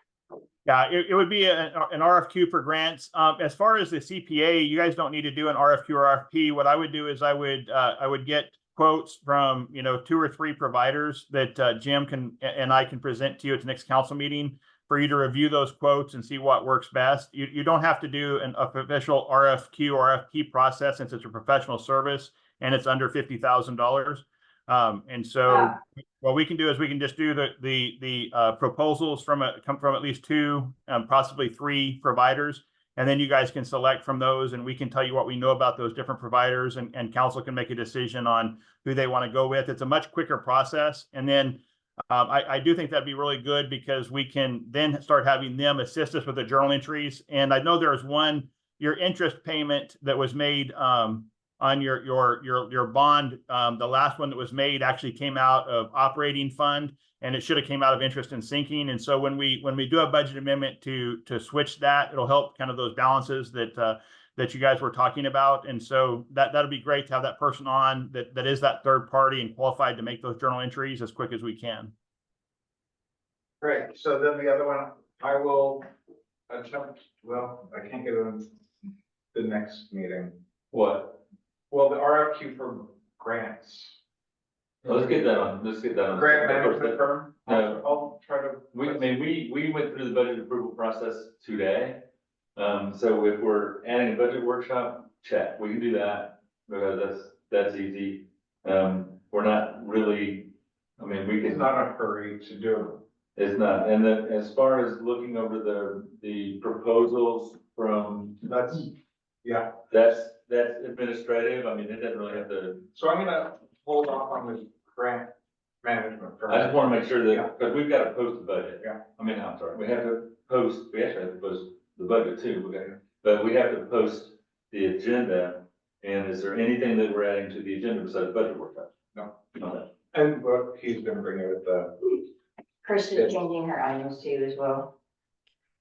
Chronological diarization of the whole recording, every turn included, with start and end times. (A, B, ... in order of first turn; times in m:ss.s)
0:00.6-1:11.9 A
0:25.5-0:25.7 B
1:13.6-1:15.9 C
1:16.5-1:18.5 C
1:19.3-1:20.3 C
1:20.7-1:21.2 D
1:21.7-1:24.0 C
1:24.8-1:25.1 C
1:24.8-1:27.9 D
1:26.1-1:29.1 C
1:28.7-1:32.0 D
1:32.6-1:41.7 D
1:41.4-1:43.0 C
1:43.4-1:48.4 D
1:48.4-1:48.9 C
1:49.4-1:49.7 C
1:49.9-1:52.8 D
1:52.9-1:57.5 C
1:56.5-2:08.9 D
2:09.5-2:09.9 D
2:10.1-2:12.2 C
2:12.8-2:14.9 B